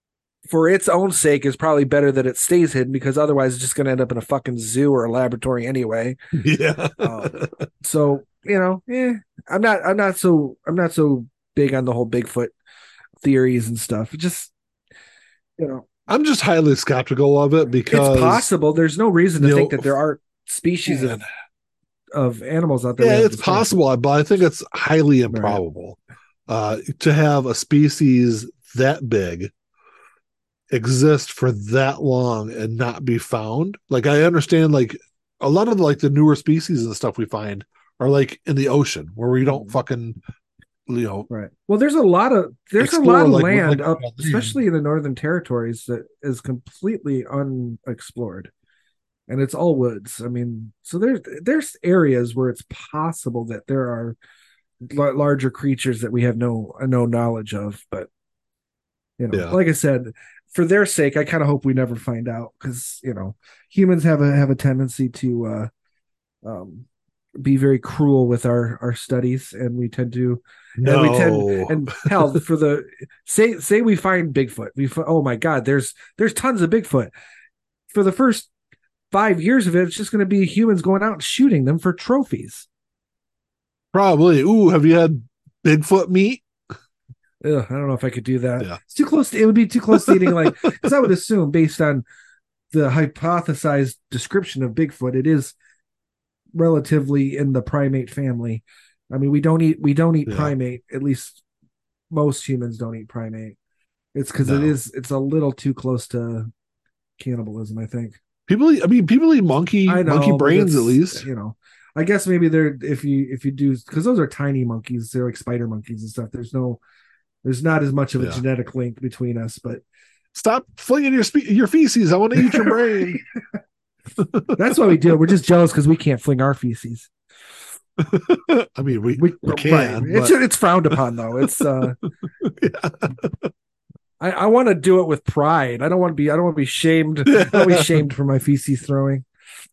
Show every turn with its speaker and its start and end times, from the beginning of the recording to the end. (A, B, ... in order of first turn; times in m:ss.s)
0:00.5-0:06.2 A
0:06.3-0:07.5 B
0:07.0-0:12.5 A
0:13.2-0:14.5 A
0:15.6-0:15.9 A
0:16.1-0:18.5 B
0:17.9-0:21.2 A
0:19.4-0:19.9 B
0:20.9-0:21.2 B
0:22.1-0:23.8 A
0:23.0-0:29.5 B
0:25.3-0:25.6 A
0:30.7-0:40.2 B
0:39.5-0:39.8 A
0:40.9-0:41.3 B
0:41.3-0:48.5 A
0:42.8-0:44.6 B
0:49.3-0:54.2 A
0:54.8-0:58.1 A
0:59.2-1:05.7 A
1:06.4-1:17.1 A
1:10.8-1:12.4 B
1:17.9-1:18.5 A
1:19.1-1:22.7 A
1:23.9-1:26.4 B
1:27.4-1:32.0 A
1:29.9-1:30.9 B
1:32.7-1:35.5 A
1:36.5-1:41.4 A
1:40.3-1:40.5 B
1:42.1-1:43.6 A
1:44.1-1:46.5 A
1:44.4-1:44.8 B
1:47.2-1:48.2 A
1:48.5-1:51.2 B
1:49.9-1:56.8 A
1:57.4-1:59.8 A
2:00.3-2:03.2 B
2:02.4-2:03.2 A
2:04.2-2:04.7 B
2:04.6-2:07.1 A
2:08.0-2:10.4 B
2:09.2-2:12.0 A
2:10.9-2:11.6 B
2:12.4-2:13.5 B
2:14.2-2:19.2 A
2:17.3-2:18.0 B